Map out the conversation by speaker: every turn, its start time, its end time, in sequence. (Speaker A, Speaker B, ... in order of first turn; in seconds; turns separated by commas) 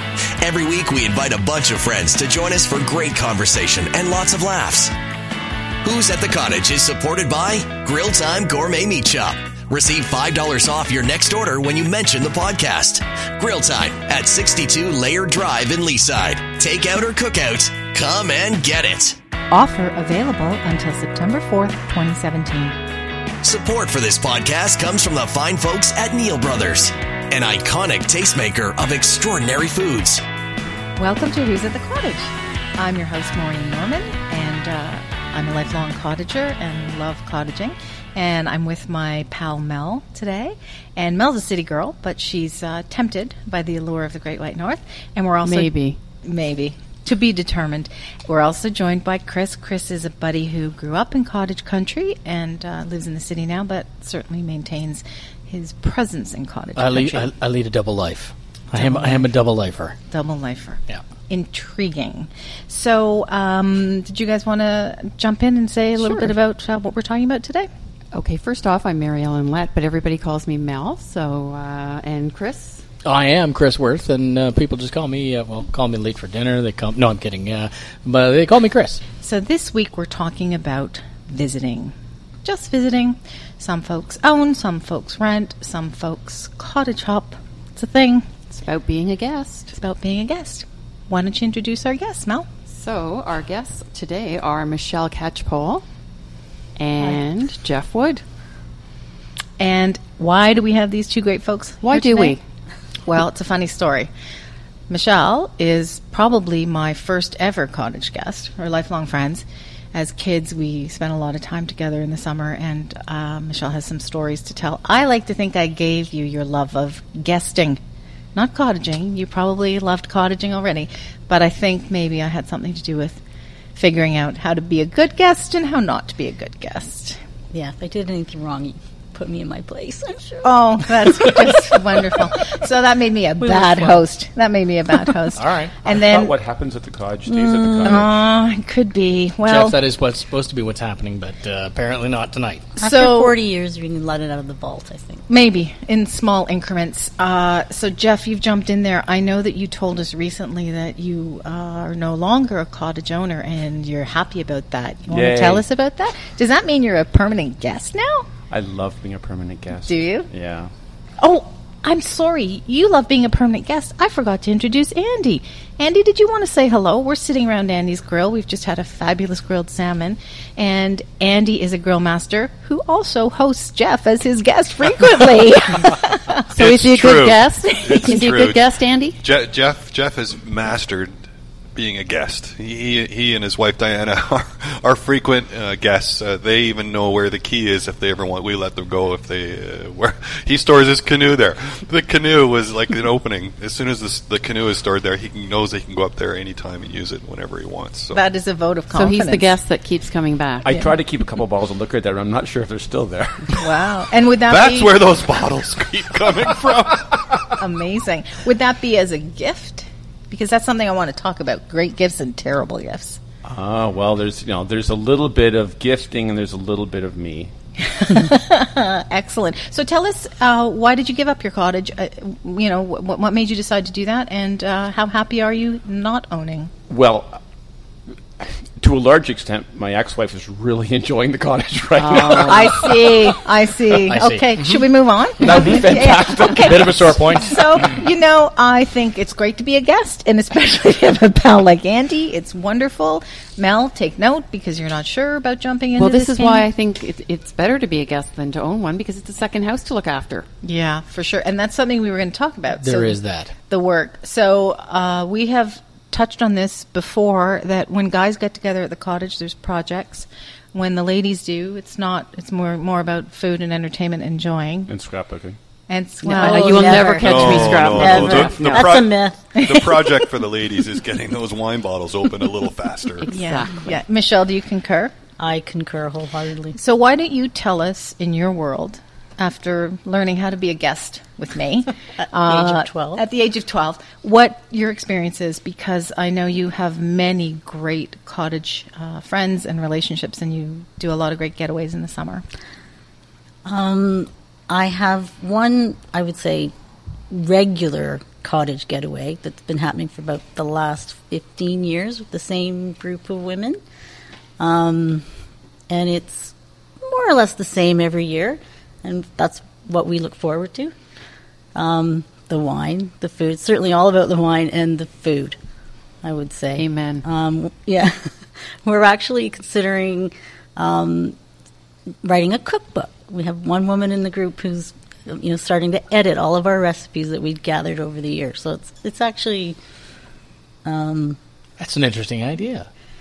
Speaker A: 0.4-4.9, Speaker A: 5.8-19.2, Speaker B: 19.5-22.8, Speaker A: 23.4-30.2, Speaker B: 31.0-57.3, Speaker C: 45.4-46.0, Speaker D: 56.8-60.0, Speaker B: 58.7-59.3, Speaker B: 60.1-67.7, Speaker C: 66.0-66.3, Speaker C: 68.1-72.8, Speaker D: 73.0-79.0, Speaker B: 79.2-88.3, Speaker C: 88.5-89.8, Speaker B: 89.8-92.5, Speaker C: 92.7-95.8, Speaker C: 96.8-98.2, Speaker B: 99.6-102.4, Speaker C: 101.8-102.4, Speaker B: 103.0-104.1, Speaker B: 104.9-117.8, Speaker B: 118.3-123.2, Speaker B: 123.8-127.2, Speaker E: 127.5-130.5, Speaker B: 130.4-136.3, Speaker E: 133.4-134.0, Speaker D: 135.3-135.7, Speaker F: 135.9-138.2, Speaker E: 137.3-138.1, Speaker B: 137.8-139.8, Speaker D: 139.4-142.7, Speaker E: 142.8-145.2, Speaker B: 142.8-143.3, Speaker B: 145.3-158.3, Speaker F: 155.1-155.7, Speaker F: 158.5-160.7, Speaker B: 159.9-160.3, Speaker B: 161.2-176.5, Speaker C: 176.5-179.2, Speaker G: 176.5-181.2, Speaker B: 177.7-178.3, Speaker G: 181.7-198.2, Speaker B: 198.1-199.6, Speaker C: 198.9-200.7, Speaker F: 200.6-203.8, Speaker B: 203.5-204.9, Speaker G: 204.4-207.5, Speaker B: 207.6-213.2, Speaker F: 213.4-217.5, Speaker B: 217.8-226.7, Speaker F: 226.9-227.4, Speaker F: 228.4-233.3, Speaker E: 232.0-232.8, Speaker B: 232.4-246.7, Speaker D: 234.0-234.9, Speaker F: 235.4-237.1, Speaker D: 235.5-235.8, Speaker D: 236.6-237.8, Speaker C: 246.0-250.5, Speaker B: 250.6-264.9, Speaker D: 252.7-253.5, Speaker F: 264.9-265.6, Speaker B: 265.9-268.0, Speaker E: 266.2-269.5, Speaker C: 266.2-268.9, Speaker G: 267.2-273.3, Speaker B: 269.6-270.3, Speaker C: 273.2-273.9, Speaker B: 273.3-275.1, Speaker E: 275.4-276.8, Speaker B: 276.8-292.4, Speaker E: 282.2-283.2, Speaker E: 293.6-296.7, Speaker E: 297.3-303.8, Speaker E: 304.6-305.3, Speaker E: 305.9-310.9, Speaker E: 311.7-315.6, Speaker E: 316.2-318.3, Speaker C: 316.8-317.2, Speaker E: 318.8-321.4, Speaker E: 322.2-329.8, Speaker E: 330.8-331.4, Speaker D: 331.8-332.9